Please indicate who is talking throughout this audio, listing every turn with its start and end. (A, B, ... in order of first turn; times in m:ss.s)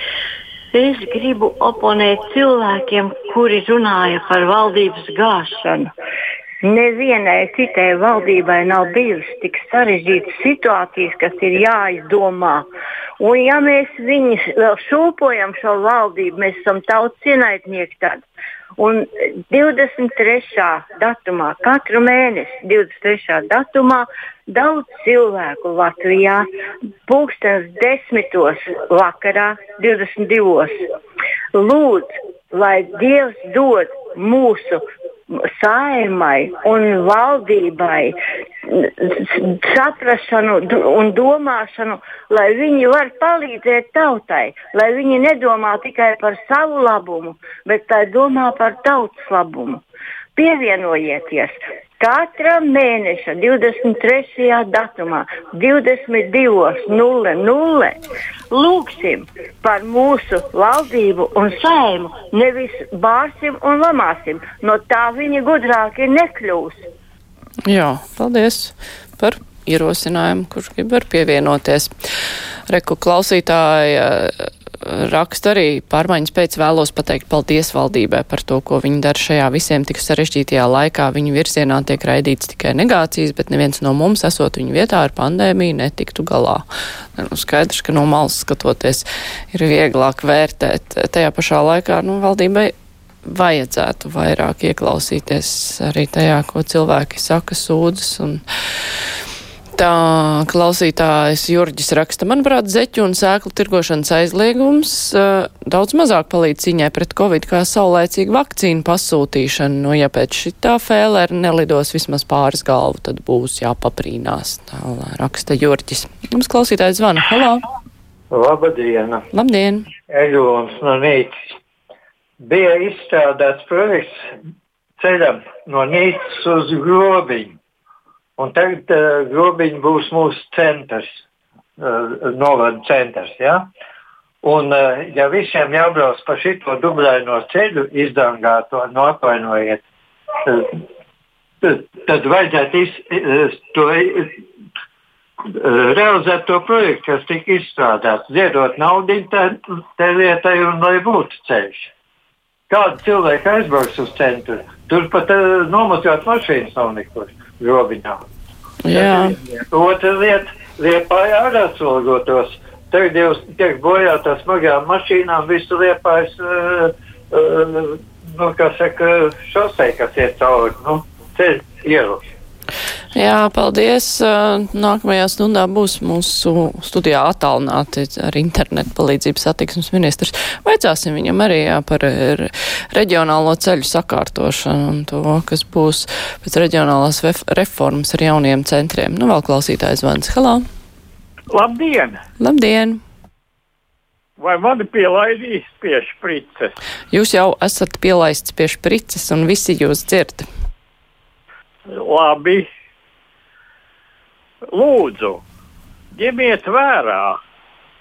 0:00.7-0:05.9 A
0:06.6-0:12.6 A
0:13.2-0:18.2 A
0:18.8-0:26.4 A
0:27.1-0:30.7 A
0:31.5-0:49.8 A
0:50.4-0:57.9 A
0:58.5-1:06.8 A
1:07.6-1:11.9 B
1:12.7-1:26.6 B
1:27.2-1:32.7 B
1:33.2-1:38.4 B
1:39.7-1:57.6 B
1:58.3-1:59.2 C
1:59.3-1:59.8 B
2:00.1-2:01.3 C
2:02.4-2:04.1 C
2:05.0-2:07.6 C
2:08.4-2:11.2 C
2:11.8-2:13.7 C
2:14.4-2:19.8 C
2:20.4-2:20.8 C
2:21.6-2:24.4 C
2:25.4-2:31.9 C
2:32.7-2:38.2 C
2:38.8-2:39.4 B
2:38.9-2:52.2 C
2:53.1-3:10.6 B
3:11.5-3:12.2 D
3:12.4-3:13.0 B
3:14.4-3:16.7 D
3:17.1-3:20.4 B
3:21.9-3:22.7 D
3:24.7-3:25.4 D
3:26.1-3:27.4 D